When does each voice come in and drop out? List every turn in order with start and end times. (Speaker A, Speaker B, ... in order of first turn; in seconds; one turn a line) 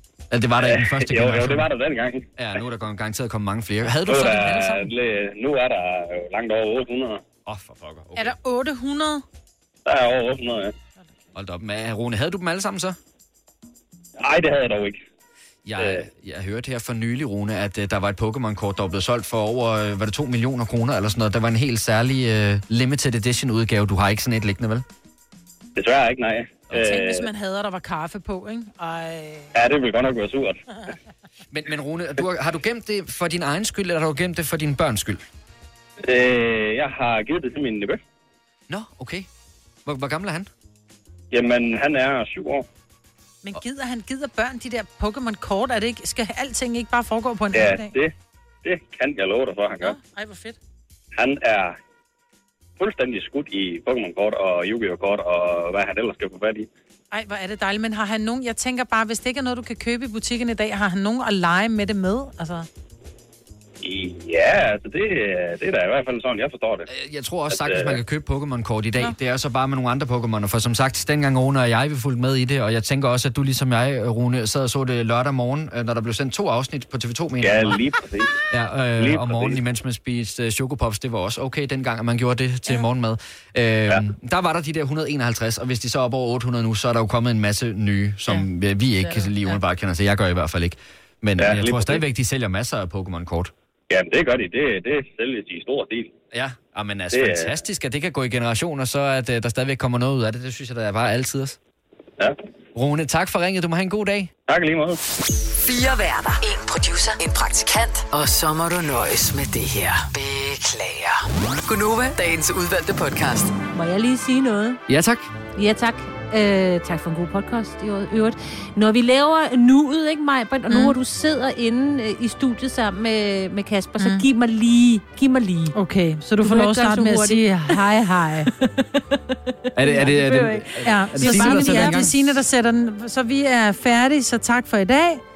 Speaker A: 0.3-1.7
Speaker B: 0.6-2.3
Speaker A: 2.4-4.9
Speaker B: 4.0-7.2
Speaker C: 4.2-4.5
Speaker A: 7.5-8.4
Speaker C: 8.2-9.2
Speaker B: 9.9-10.7
Speaker A: 11.3-13.0
Speaker B: 14.2-15.0
Speaker A: 15.7-24.8
Speaker B: 15.8-16.1
Speaker B: 25.8-27.3
Speaker C: 26.7-29.5
Speaker B: 29.6-30.6
Speaker A: 31.5-35.2
Speaker B: 36.0-38.0
Speaker A: 38.7-39.3
Speaker A: 39.9-40.5
Speaker B: 41.3-42.7
Speaker C: 43.4-47.9
Speaker B: 47.5-48.1
Speaker B: 48.6-50.0
Speaker C: 49.8-50.6
Speaker B: 51.2-51.8
Speaker B: 52.8-56.7
Speaker C: 57.1-62.7
Speaker B: 63.8-66.9
Speaker A: 66.9-77.8
Speaker B: 67.5-68.0
Speaker B: 77.4-78.4
Speaker A: 78.5-93.5
Speaker B: 79.0-79.6
Speaker D: 89.0-89.5
Speaker B: 91.4-92.0
Speaker B: 93.9-96.1
Speaker A: 96.3-101.6
Speaker B: 97.1-97.5
Speaker A: 102.7-104.3
Speaker B: 104.5-105.0
Speaker E: 105.6-113.5
Speaker D: 113.7-114.8
Speaker A: 114.9-115.3
Speaker D: 115.5-125.7
Speaker C: 120.7-121.0
Speaker C: 124.0-124.3
Speaker C: 125.7-128.5
Speaker D: 126.4-127.8
Speaker D: 128.5-132.1
Speaker A: 129.8-132.4
Speaker C: 130.8-135.2